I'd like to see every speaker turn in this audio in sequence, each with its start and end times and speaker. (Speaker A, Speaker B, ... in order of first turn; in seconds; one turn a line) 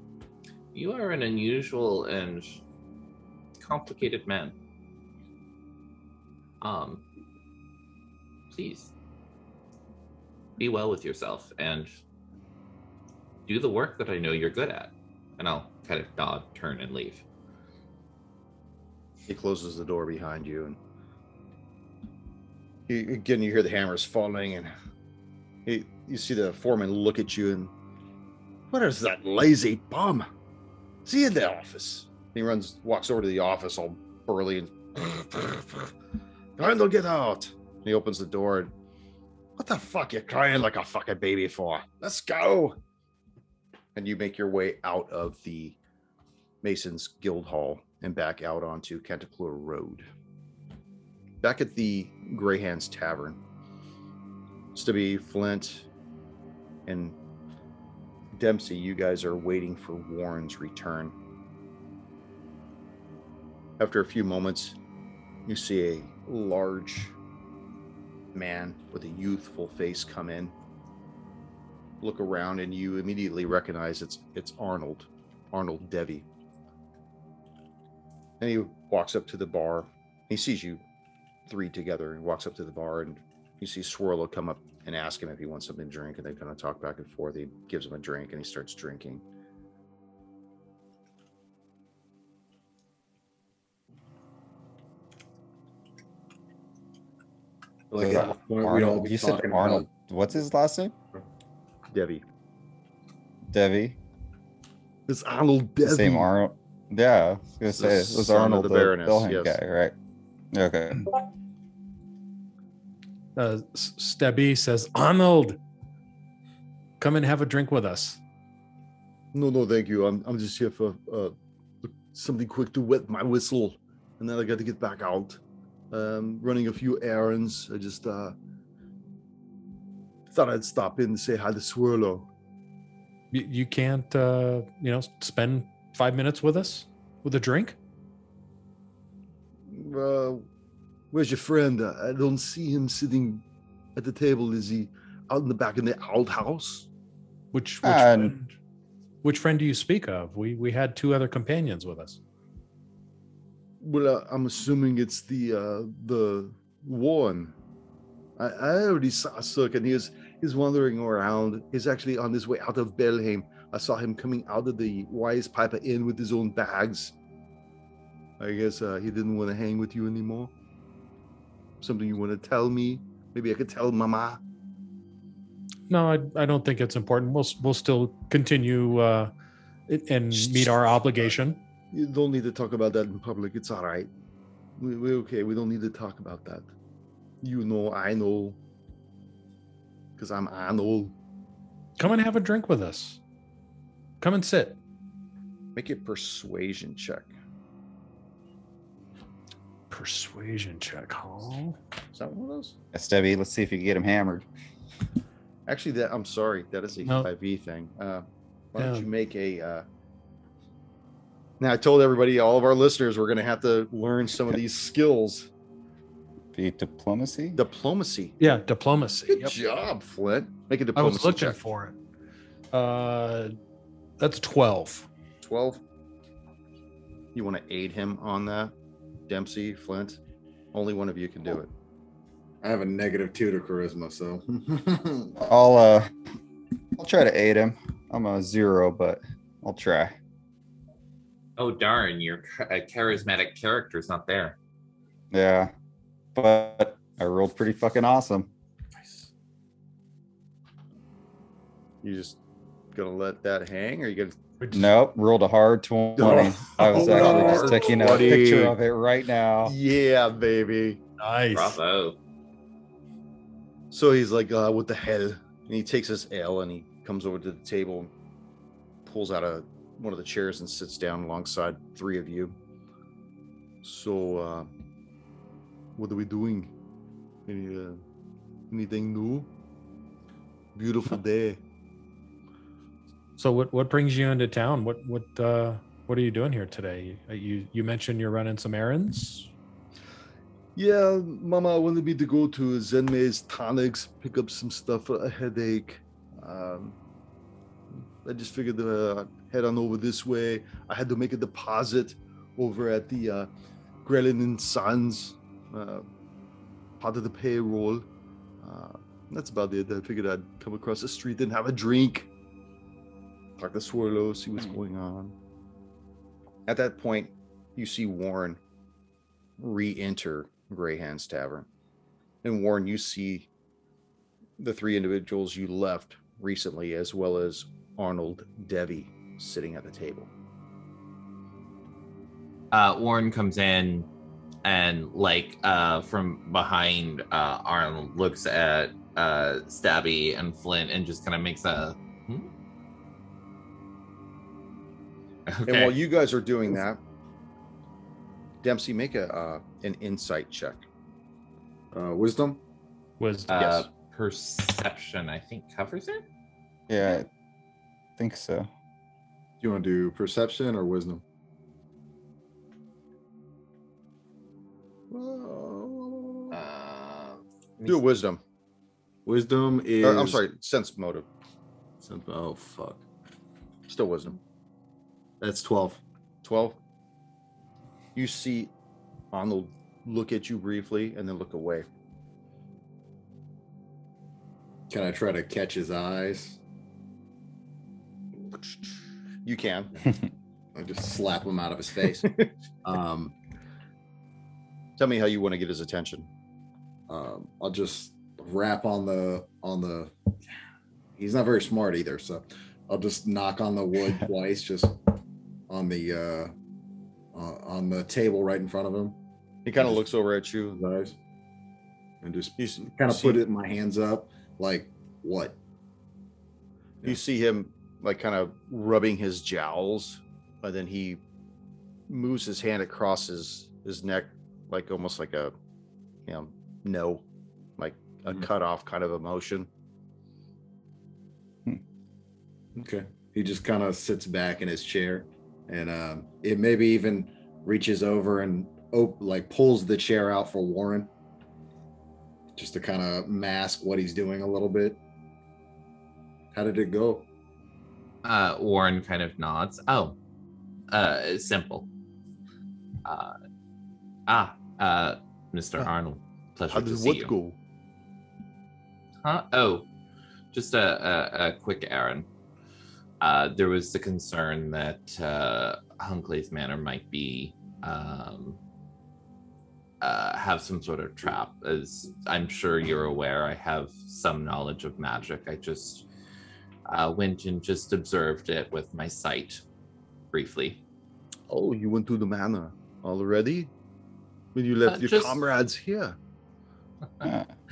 Speaker A: 0.7-2.6
Speaker A: 3.6-4.5
Speaker A: 6.6-7.0
Speaker A: 8.5-8.9
Speaker A: 10.6-11.9
Speaker A: 13.5-17.2
Speaker B: 19.3-20.8
Speaker B: 22.9-24.7
Speaker B: 25.7-27.7
Speaker B: 28.7-30.3
Speaker B: 31.1-35.9
Speaker B: 36.6-38.7
Speaker B: 39.6-42.8
Speaker B: 44.0-45.8
Speaker B: 46.6-50.1
Speaker B: 51.4-53.4
Speaker B: 54.8-55.9
Speaker B: 56.9-57.2
Speaker B: 58.3-61.2
Speaker B: 63.8-64.8
Speaker B: 65.5-67.2
Speaker B: 68.3-70.5
Speaker B: 72.0-76.3
Speaker B: 78.4-80.8
Speaker B: 81.5-89.2
Speaker C: 97.9-99.9
Speaker D: 98.0-101.0
Speaker B: 101.9-102.2
Speaker D: 103.5-104.0
Speaker B: 105.1-106.3
Speaker D: 105.8-109.9
Speaker B: 107.7-109.6
Speaker D: 110.5-111.1
Speaker E: 113.4-115.6
Speaker E: 117.0-118.2
Speaker B: 119.3-121.3
Speaker B: 121.9-125.4
Speaker B: 125.9-128.3
Speaker B: 130.3-132.3
Speaker E: 133.3-137.8
Speaker B: 139.7-140.5
Speaker B: 141.1-143.4
Speaker B: 144.0-146.9
Speaker E: 147.5-148.5
Speaker D: 147.8-148.3
Speaker E: 149.2-152.2
Speaker B: 153.8-157.6
Speaker B: 158.4-167.1
Speaker B: 168.4-170.5
Speaker B: 171.8-174.4
Speaker E: 175.9-179.3
Speaker E: 179.9-181.6
Speaker B: 180.4-180.7
Speaker B: 181.9-184.1
Speaker B: 184.8-186.7
Speaker B: 187.4-188.6
Speaker B: 190.2-191.1
Speaker E: 192.0-193.2
Speaker E: 194.2-194.8
Speaker B: 195.8-197.3
Speaker E: 199.9-201.8
Speaker B: 202.1-202.8
Speaker D: 202.9-204.5
Speaker B: 205.7-209.8
Speaker E: 208.8-209.1
Speaker B: 211.6-215.5
Speaker D: 216.5-217.6
Speaker B: 217.6-218.4
Speaker E: 218.4-219.6
Speaker B: 219.3-221.6
Speaker E: 221.0-222.0
Speaker E: 222.7-223.5
Speaker E: 224.2-225.1
Speaker B: 225.4-225.8
Speaker B: 227.3-228.7
Speaker B: 229.3-230.2
Speaker B: 230.7-231.7
Speaker C: 232.6-235.3
Speaker D: 235.4-236.1
Speaker D: 237.0-240.2
Speaker A: 241.6-244.6
Speaker D: 245.3-245.7
Speaker D: 246.3-248.5
Speaker B: 252.0-252.4
Speaker B: 252.9-254.3
Speaker E: 254.6-254.9
Speaker D: 254.7-259.8
Speaker B: 256.2-258.8
Speaker E: 257.1-257.6
Speaker C: 257.5-258.2
Speaker B: 259.6-261.0
Speaker E: 261.2-261.8
Speaker A: 261.5-262.2
Speaker B: 263.9-268.1
Speaker B: 269.1-272.6
Speaker B: 273.8-274.7
Speaker B: 276.0-276.7
Speaker B: 277.5-278.0
Speaker B: 278.7-279.5
Speaker B: 280.8-281.6
Speaker E: 283.4-289.5
Speaker B: 290.8-297.0
Speaker B: 298.2-303.5
Speaker B: 304.1-306.1
Speaker B: 307.0-308.1
Speaker B: 308.6-312.3
Speaker B: 313.6-315.4
Speaker B: 316.7-318.6
Speaker B: 319.6-321.7
Speaker B: 322.4-323.5
Speaker B: 324.6-330.3
Speaker A: 332.7-334.1
Speaker A: 334.6-342.5
Speaker A: 345.5-345.9
Speaker B: 345.6-347.0
Speaker B: 348.6-350.8
Speaker C: 351.9-352.6
Speaker E: 353.2-353.5
Speaker A: 353.5-356.2
Speaker B: 353.6-353.9
Speaker D: 356.9-357.3
Speaker D: 358.2-358.7
Speaker C: 359.6-361.2
Speaker B: 365.1-366.6
Speaker A: 366.5-368.0
Speaker B: 367.8-368.4
Speaker C: 369.3-370.4
Speaker B: 370.0-371.3
Speaker C: 372.0-373.1
Speaker B: 373.9-374.4
Speaker C: 375.4-376.0
Speaker B: 376.4-376.8
Speaker B: 378.1-378.7
Speaker B: 379.3-381.9
Speaker C: 384.9-386.6
Speaker B: 388.5-388.9
Speaker B: 389.4-390.0
Speaker C: 390.8-392.3
Speaker C: 392.8-393.4
Speaker B: 395.0-396.3
Speaker C: 397.1-400.1
Speaker C: 401.2-405.0
Speaker C: 405.7-406.5
Speaker C: 407.3-409.2
Speaker B: 409.6-410.8
Speaker C: 410.8-411.2
Speaker C: 412.2-415.6
Speaker B: 412.6-413.5
Speaker B: 417.0-421.2
Speaker B: 422.1-425.5
Speaker B: 426.3-427.3
Speaker B: 427.8-429.7
Speaker C: 432.8-441.1
Speaker C: 442.6-445.0
Speaker C: 446.5-447.3
Speaker A: 448.2-450.2
Speaker A: 450.9-451.9
Speaker A: 453.1-453.4
Speaker A: 454.3-457.3
Speaker B: 456.7-457.6
Speaker A: 459.2-459.9
Speaker A: 460.5-462.3
Speaker A: 463.2-468.6
Speaker A: 470.0-476.1
Speaker A: 476.9-479.6
Speaker A: 480.3-480.8
Speaker B: 481.5-483.7
Speaker B: 484.6-486.2
Speaker A: 484.9-485.4
Speaker D: 487.2-487.5